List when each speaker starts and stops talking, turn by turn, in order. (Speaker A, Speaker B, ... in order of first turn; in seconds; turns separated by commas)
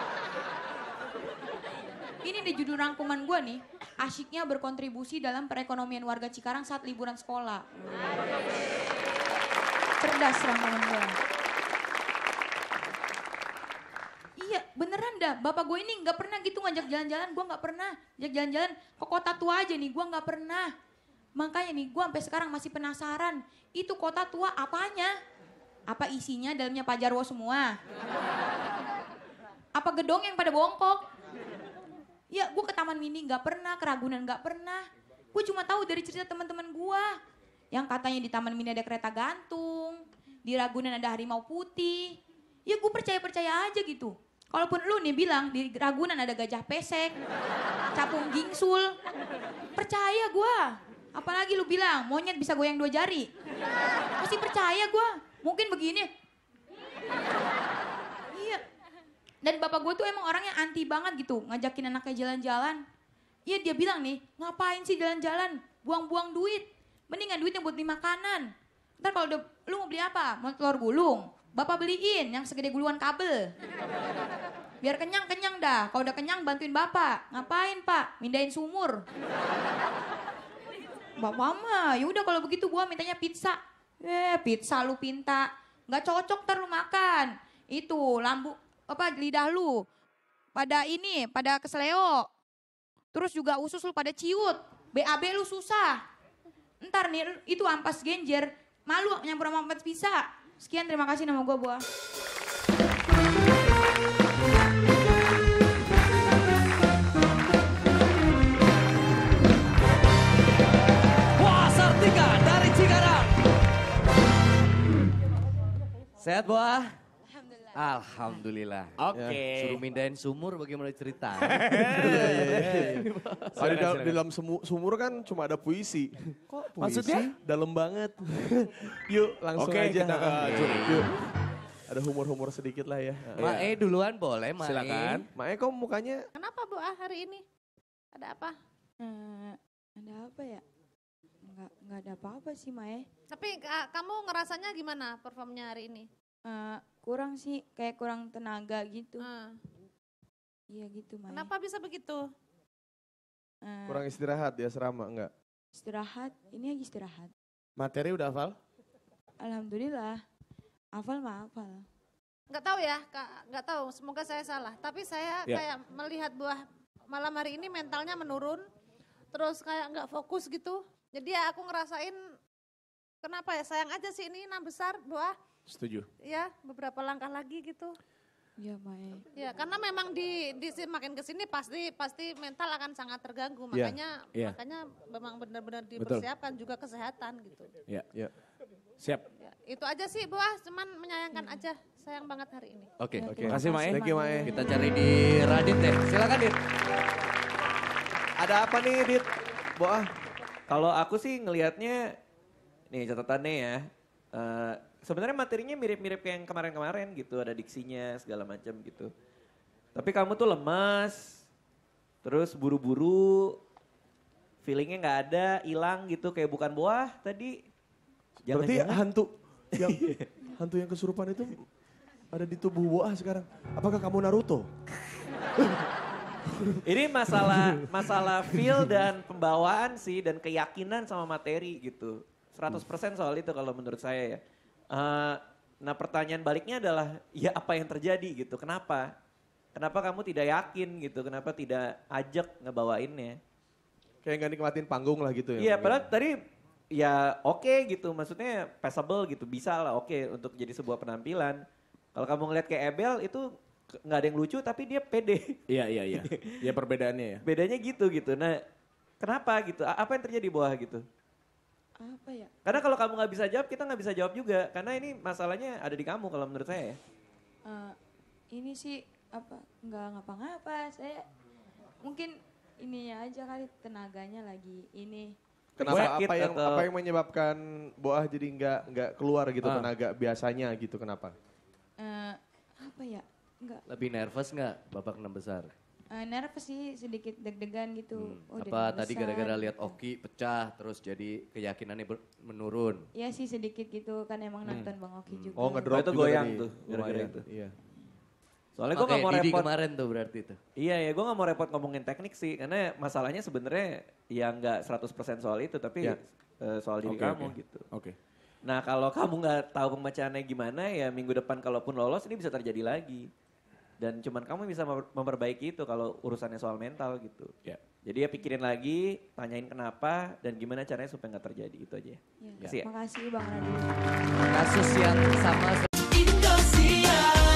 Speaker A: 2.2-8.2, Speaker A: 10.0-11.2, Speaker A: 14.4-20.7, Speaker A: 21.4-25.1, Speaker A: 25.9-27.7, Speaker A: 29.8-31.0, Speaker A: 32.3-37.1, Speaker A: 37.7-47.1, Speaker A: 47.9-48.9, Speaker A: 49.8-53.3, Speaker A: 54.2-56.1, Speaker A: 58.3-58.6, Speaker A: 59.4-62.8, Speaker A: 63.5-68.5, Speaker A: 69.0-73.5, Speaker A: 74.8-79.0, Speaker A: 81.2-89.8, Speaker A: 90.5-92.3, Speaker A: 93.1-96.0, Speaker A: 96.8-101.8, Speaker B: 111.4-113.3, Speaker B: 116.2-117.0, Speaker B: 117.8-123.7, Speaker C: 119.0-119.8, Speaker D: 119.1-119.5, Speaker C: 121.4-123.0, Speaker D: 121.9-131.1, Speaker C: 123.5-124.2, Speaker B: 126.8-127.3, Speaker C: 129.6-131.1, Speaker B: 130.4-130.9, Speaker D: 131.9-133.5, Speaker C: 133.3-133.8, Speaker B: 133.4-135.3, Speaker C: 134.6-135.3, Speaker D: 135.3-136.3, Speaker E: 136.4-137.4, Speaker E: 138.2-138.5, Speaker A: 139.0-140.6, Speaker A: 141.5-143.1, Speaker E: 143.3-146.1, Speaker A: 146.4-149.3, Speaker E: 149.2-149.6, Speaker A: 150.7-151.5, Speaker E: 151.3-152.2, Speaker A: 153.6-154.1, Speaker D: 153.9-155.3, Speaker A: 155.7-157.3, Speaker C: 157.8-158.6, Speaker A: 159.4-160.2, Speaker A: 160.9-161.8, Speaker E: 162.5-168.6, Speaker E: 169.3-172.2, Speaker E: 173.2-175.3, Speaker C: 175.7-176.1, Speaker E: 176.2-177.9, Speaker A: 178.6-179.2, Speaker E: 179.4-187.7, Speaker C: 186.0-186.3, Speaker C: 189.0-189.3, Speaker E: 189.4-192.9, Speaker B: 193.0-193.4, Speaker D: 193.2-194.6, Speaker A: 193.2-194.8, Speaker C: 193.4-194.2, Speaker B: 194.4-196.6, Speaker D: 198.4-200.1, Speaker F: 200.7-202.1, Speaker F: 202.9-209.1, Speaker F: 209.9-211.4, Speaker F: 212.2-213.6, Speaker F: 214.6-217.6, Speaker F: 218.5-219.0, Speaker D: 218.5-221.7, Speaker F: 219.8-220.2, Speaker D: 222.3-224.7, Speaker F: 226.8-239.1, Speaker D: 227.3-228.8, Speaker F: 239.8-243.4, Speaker D: 244.2-246.1, Speaker F: 245.6-246.4, Speaker F: 246.9-251.6, Speaker F: 252.1-253.4, Speaker F: 254.0-255.6, Speaker C: 255.7-257.4, Speaker F: 256.1-256.8, Speaker F: 257.4-258.6, Speaker F: 259.2-261.0, Speaker A: 262.0-262.6, Speaker F: 262.6-267.0, Speaker A: 267.7-267.9, Speaker A: 268.5-271.2, Speaker A: 272.0-275.3, Speaker D: 275.8-281.3, Speaker F: 275.8-276.9, Speaker C: 275.9-276.1, Speaker C: 279.6-279.9, Speaker A: 282.0-283.9, Speaker B: 283.9-285.7, Speaker A: 286.1-290.0, Speaker B: 288.2-293.1, Speaker A: 293.2-296.0, Speaker B: 295.3-295.7, Speaker D: 295.6-297.8, Speaker F: 295.9-297.4, Speaker F: 298.8-299.7, Speaker B: 298.9-300.6, Speaker F: 300.8-307.9, Speaker C: 307.0-308.2, Speaker F: 308.6-313.3, Speaker F: 314.0-322.9, Speaker A: 322.4-323.9, Speaker B: 324.4-325.9